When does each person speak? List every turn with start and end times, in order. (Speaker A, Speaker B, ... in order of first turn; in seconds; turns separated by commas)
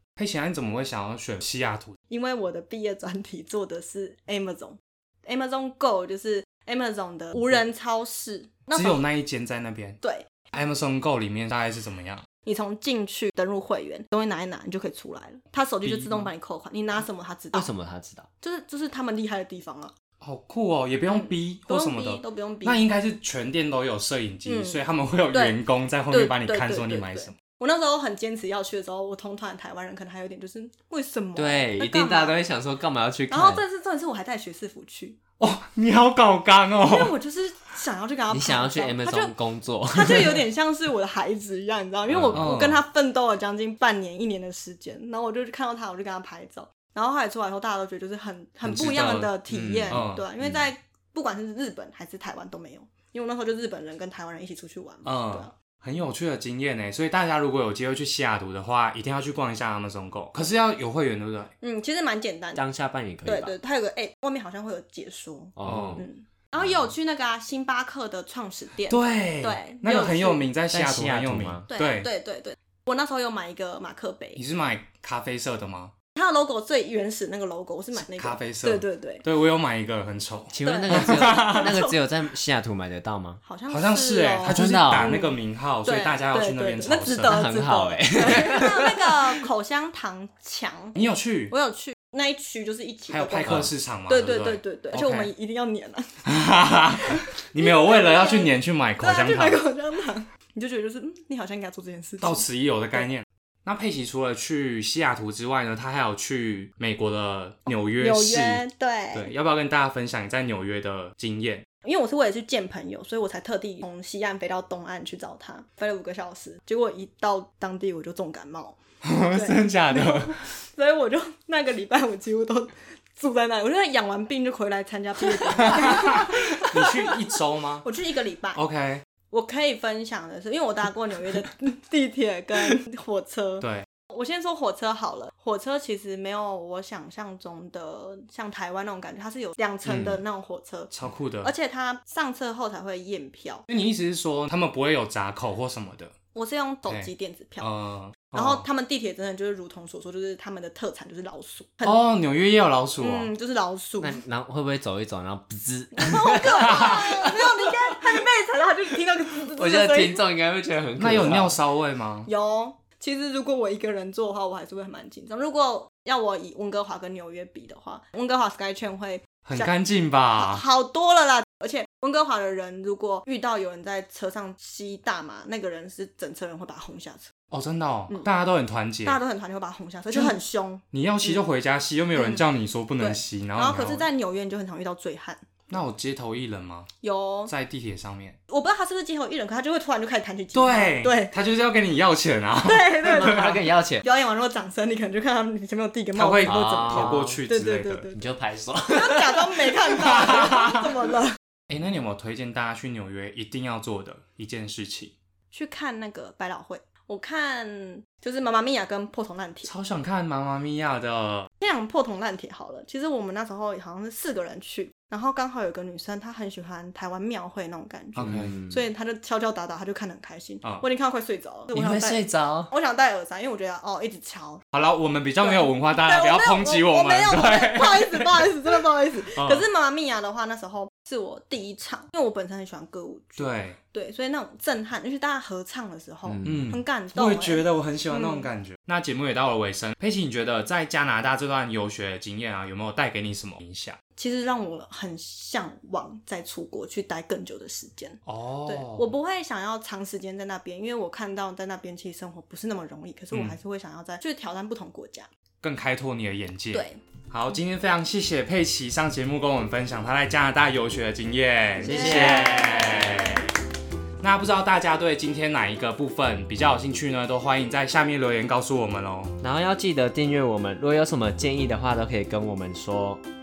Speaker A: 0.2-2.0, Speaker B: 2.1-9.0, Speaker A: 8.7-10.0, Speaker B: 10.0-10.3, Speaker A: 10.5-12.2, Speaker B: 12.4-17.7, Speaker A: 15.8-16.3, Speaker C: 17.5-18.3, Speaker B: 18.4-19.9, Speaker A: 20.2-27.4, Speaker B: 21.1-22.8, Speaker B: 24.4-25.6, Speaker B: 26.1-32.4, Speaker C: 31.4-33.6, Speaker B: 33.3-35.2, Speaker A: 35.4-37.1, Speaker B: 36.8-39.3, Speaker C: 38.3-40.4, Speaker B: 39.9-55.5, Speaker C: 42.1-42.4, Speaker A: 42.3-42.8, Speaker A: 48.6-49.4, Speaker C: 49.5-50.6, Speaker A: 49.9-50.2, Speaker A: 55.0-61.5, Speaker B: 61.6-62.6, Speaker C: 62.5-63.5, Speaker B: 63.2-70.4, Speaker C: 65.6-66.1, Speaker A: 65.6-66.0, Speaker A: 68.9-72.1, Speaker C: 70.7-71.7, Speaker B: 71.7-74.4, Speaker A: 74.3-75.9, Speaker B: 76.2-79.2, Speaker A: 78.0-81.8, Speaker C: 80.5-83.4, Speaker B: 80.6-82.0, Speaker B: 83.4-91.0, Speaker A: 83.7-87.5, Speaker C: 84.4-85.2, Speaker C: 87.2-89.4, Speaker A: 91.0-91.5, Speaker B: 91.5-96.2, Speaker A: 93.1-95.3, Speaker A: 96.2-99.6, Speaker B: 97.0-103.1, Speaker A: 102.2-111.6, Speaker B: 107.7-109.3, Speaker B: 111.8-118.8, Speaker A: 119.0-120.4, Speaker B: 119.3-128.6, Speaker A: 125.3-127.8, Speaker A: 128.5-129.0, Speaker B: 129.3-143.7, Speaker A: 133.6-133.8, Speaker C: 139.9-140.1, Speaker A: 140.9-141.5, Speaker A: 143.7-146.1, Speaker B: 146.3-147.7, Speaker A: 146.9-148.6, Speaker B: 148.3-152.0, Speaker A: 151.8-153.3, Speaker B: 153.0-154.2, Speaker C: 154.0-158.0, Speaker B: 155.9-160.2, Speaker A: 156.6-157.1, Speaker C: 159.5-161.6, Speaker A: 161.0-162.3, Speaker B: 162.2-169.7, Speaker A: 169.4-170.6, Speaker B: 170.3-177.3, Speaker A: 177.5-179.2, Speaker B: 179.0-181.4, Speaker A: 180.1-180.4, Speaker A: 180.9-184.1, Speaker B: 182.1-182.4, Speaker B: 183.0-185.4, Speaker A: 185.7-186.9, Speaker B: 187.0-187.5, Speaker A: 187.5-188.4, Speaker B: 188.5-191.3, Speaker A: 190.5-193.6, Speaker B: 192.6-193.5, Speaker C: 193.0-194.1, Speaker B: 194.0-198.2, Speaker A: 196.1-198.1, Speaker C: 196.4-197.4, Speaker C: 198.1-199.8, Speaker B: 198.9-201.4, Speaker A: 200.1-200.9, Speaker A: 201.7-205.1, Speaker B: 205.5-209.7, Speaker A: 209.7-211.5, Speaker B: 211.6-224.6, Speaker A: 218.2-218.5, Speaker C: 218.2-218.8, Speaker C: 221.7-222.7, Speaker A: 224.7-228.5, Speaker B: 225.4-238.5, Speaker A: 229.3-229.6, Speaker A: 233.4-233.8, Speaker C: 236.2-236.8, Speaker A: 236.4-244.0, Speaker B: 244.2-255.3, Speaker A: 248.2-249.1, Speaker A: 253.3-253.6, Speaker A: 255.6-263.5, Speaker B: 256.7-257.0, Speaker B: 261.8-263.5, Speaker C: 261.8-263.3, Speaker A: 264.2-269.3, Speaker C: 269.4-273.2